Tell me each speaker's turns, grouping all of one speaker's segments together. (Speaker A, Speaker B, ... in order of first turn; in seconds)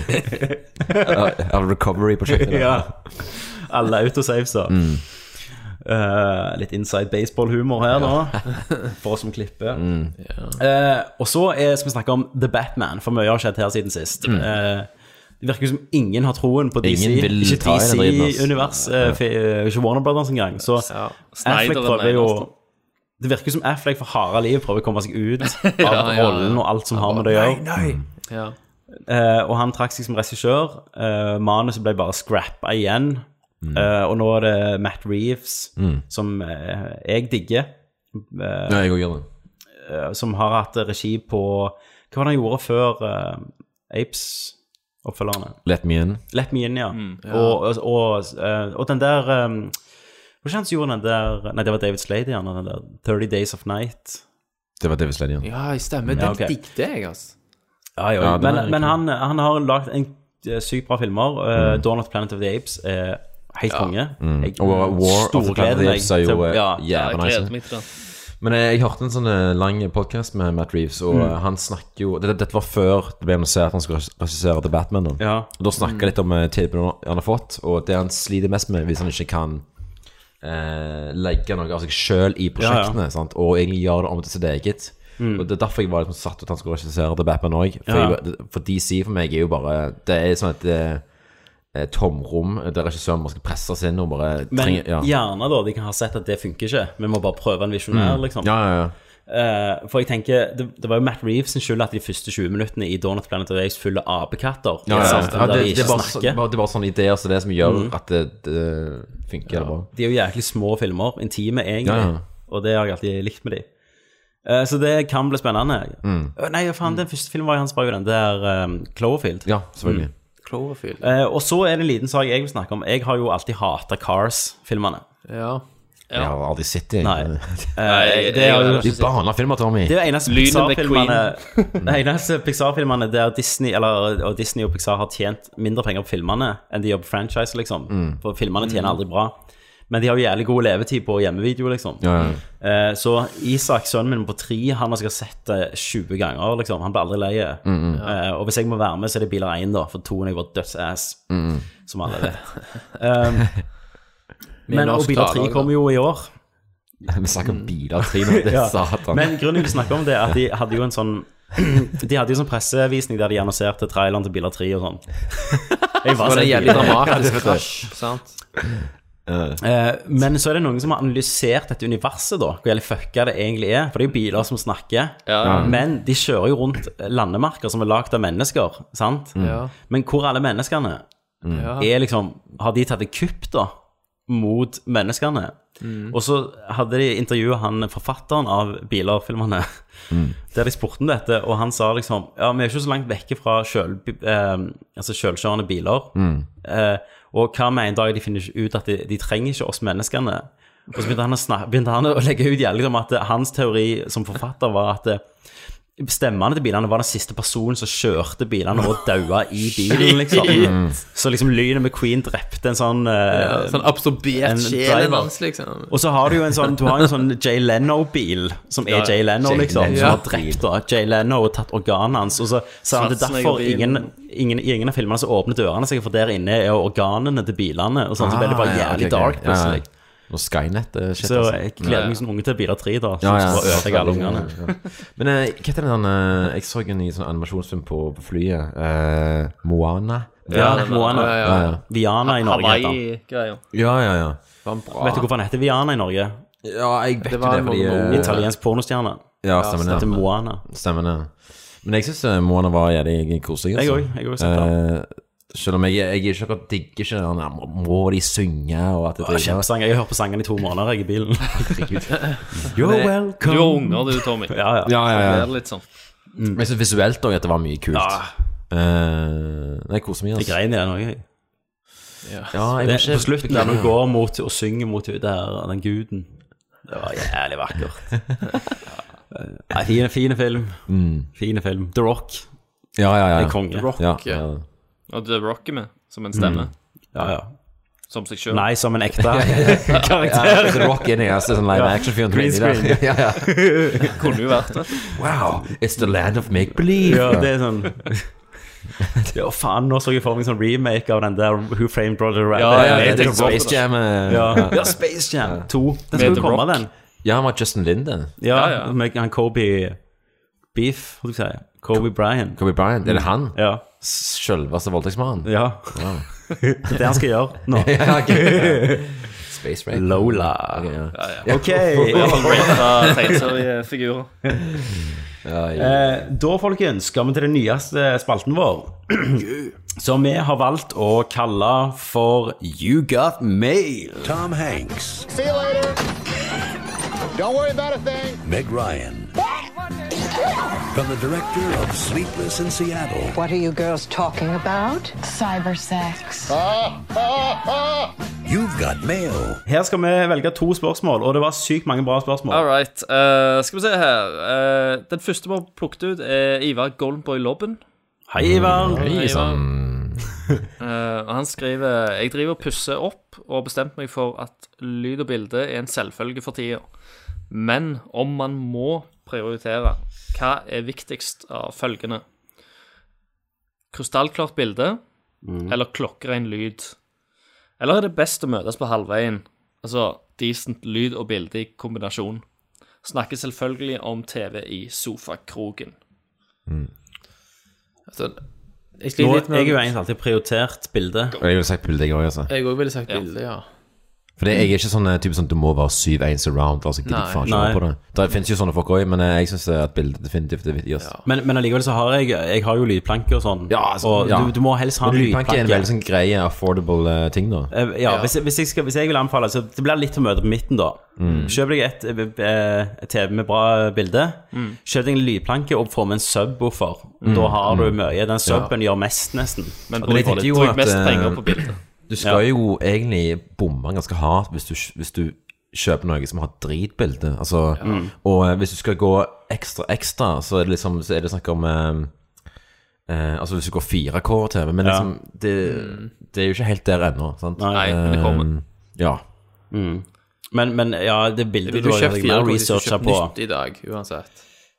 Speaker A: 1.0-3.2, 4.7-5.0, 7.9-8.6, 9.7-10.1, 16.8-19.2, 27.8-28.1, 33.6-33.9, 35.8-36.0, 38.7-39.2, 45.6-46.2, 54.8-55.5, 56.0-56.4, 58.2-59.0, 61.5-61.8, 64.2-79.7, 80.4-95.1, 97.9-98.9, 104.8-109.9, 111.8-112.2, 116.0-116.3, 119.4-120.1, 126.1-129.9, 137.9-138.2, 142.0-142.4, 147.6-148.0, 151.3-151.7, 157.1-159.3, 166.2-167.9, 169.2-169.6, 175.4-175.8, 179.3-179.6, 181.4-181.7, 190.1-190.4, 196.1-196.5, 210.5-211.0, 219.4-220.7, 228.2-232.0, 233.2-241.8, 243.7-244.7, 246.6-248.5, 249.4-259.7, 261.6-263.7, 264.8-265.9, 266.5-270.6, 272.5-273.9, 280.9-281.3, 282.9-284.6, 286.3-287.4, 289.3-294.1, 295.1-297.9, 302.7-306.6, 307.2-308.3, 312.5-316.8, 317.7-323.2, 325.4-326.3, 358.4-360.4, 391.4-392.5, 394.4-401.1, 403.7-407.7, 411.2-411.6, 417.2-418.7, 420.0-432.2, 433.1-439.2
Speaker B: 2.5-9.9, 10.5-22.5, 23.2-27.7, 29.1-38.9, 39.8-45.6, 46.3-49.8, 50.4-54.2, 56.1-56.5, 58.0-66.8, 75.2-75.5, 82.6-83.0, 85.2-85.5, 87.9-88.2, 94.5-106.4, 107.6-107.9, 109.7-113.7, 114.4-119.5, 121.0-125.0, 127.0-139.4, 139.9-153.8, 154.7-156.4, 158.4-167.2, 169.6-181.0, 181.8-215.3, 215.9-229.9, 231.2-234.5, 240.5-243.0, 244.9-246.4, 248.1-250.6, 253.7-254.7, 259.2-261.8, 262.7-264.9, 266.3-266.6, 267.9-268.3, 270.4-271.2, 272.8-278.4, 279.3-282.5, 283.3-283.9, 286.4-287.6, 288.5-290.0, 291.7-293.8, 297.0-298.4, 299.3-306.9, 308.4-310.1, 310.7-313.8, 315.4-318.9, 319.9-322.8, 325.8-334.2, 349.7-352.6, 358.3-359.1, 375.4-375.8, 389.2-391.3, 397.4-397.8, 401.2-405.9, 407.7-420.4, 427.8-428.1, 434.8-435.1, 437.6-437.9, 439.7-443.3
Speaker C: 10.2-10.6, 20.7-21.2, 25.8-28.6, 47.2-47.6, 55.4-57.4, 64.6-64.9, 75.8-76.1, 104.9-106.1, 119.8-121.1, 125.3-125.7, 138.6-138.9, 154.7-155.7, 157.4-157.7, 166.2-168.2, 179.4-179.7, 181.4-181.9, 185.8-186.2, 209.9-210.8, 213.3-215.9, 219.9-220.2, 241.0-241.8, 244.6-245.3, 247.2-248.5, 249.6-250.3, 272.2-272.6, 283.7-284.5, 358.8-359.6, 388.1-389.9, 392.5-393.8, 397.0-397.6, 401.0-401.2, 404.2-404.4, 408.0-408.3, 411.2-411.5, 418.5-418.7, 427.8-428.1, 435.6-436.1, 441.6-444.4
Speaker D: 21.3-22.5, 46.9-47.2, 66.9-67.8, 126.1-126.3, 127.8-129.1, 130.2-131.8, 175.2-175.7, 218.9-219.2, 222.9-224.1, 231.8-232.2, 240.5-241.3, 242.2-243.6, 263.4-265.9, 285.1-286.8, 288.1-288.9, 294.1-294.9, 302.5-304.1, 306.1-306.9, 308.5-308.9, 321.1-324.3, 352.5-357.8, 360.8-366.9, 367.5-372.2, 373.9-375.0, 375.6-377.0, 377.8-382.4, 383.0-385.9, 414.5-414.8, 419.9-421.8, 437.7-438.5
Speaker E: 334.1-335.3, 338.4-339.3, 340.9-343.4, 348.4-349.6
Speaker F: 335.3-336.0, 337.3-338.4, 346.5-348.1
Speaker G: 343.3-346.5